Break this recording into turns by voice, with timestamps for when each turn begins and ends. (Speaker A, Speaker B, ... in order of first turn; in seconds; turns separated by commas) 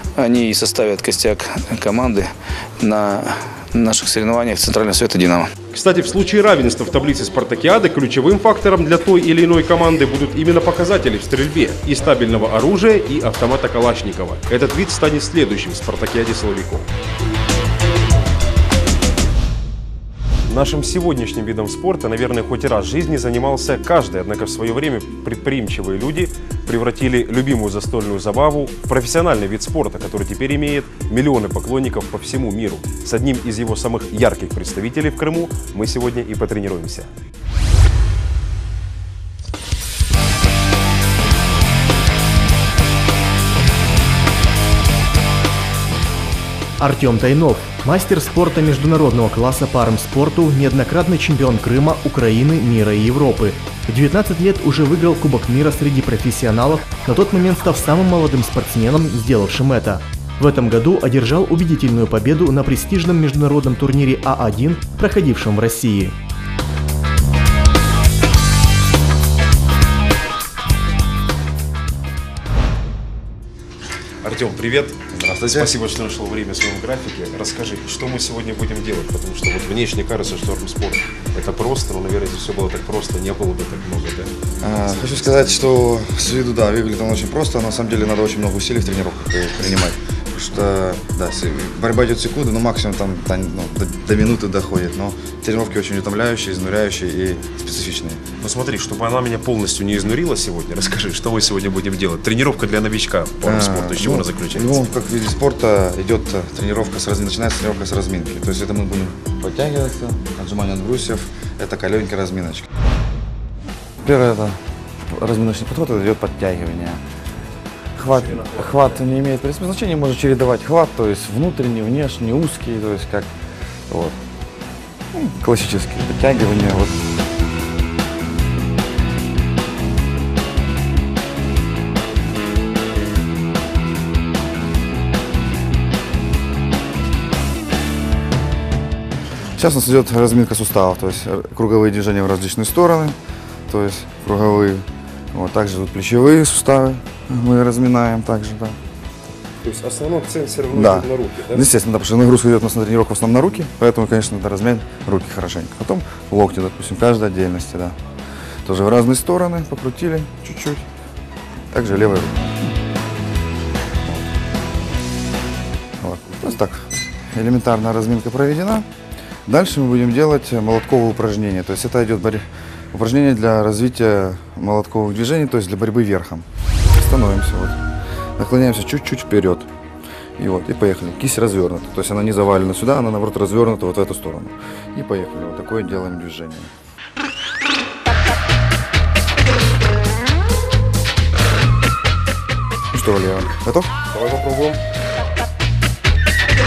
Speaker A: 0.2-5.5, Speaker B: 5.7-16.9, Speaker B: 20.4-37.1, Speaker C: 46.8-66.1, Speaker B: 74.2-84.3, Speaker D: 75.1-75.7, Speaker D: 84.6-98.2, Speaker B: 98.4-104.8, Speaker D: 103.4-112.7, Speaker D: 114.0-117.0, Speaker D: 118.0-123.3, Speaker B: 118.0-119.0, Speaker D: 123.9-124.2, Speaker D: 125.1-127.0, Speaker D: 139.6-143.2, Speaker D: 143.7-148.8, Speaker B: 149.6-151.7, Speaker D: 150.7-158.0, Speaker D: 158.6-160.9, Speaker D: 161.7-162.5, Speaker D: 166.0-168.9, Speaker D: 169.4-177.8, Speaker D: 178.4-179.7, Speaker D: 180.4-186.7, Speaker D: 192.9-193.9, Speaker B: 194.1-194.8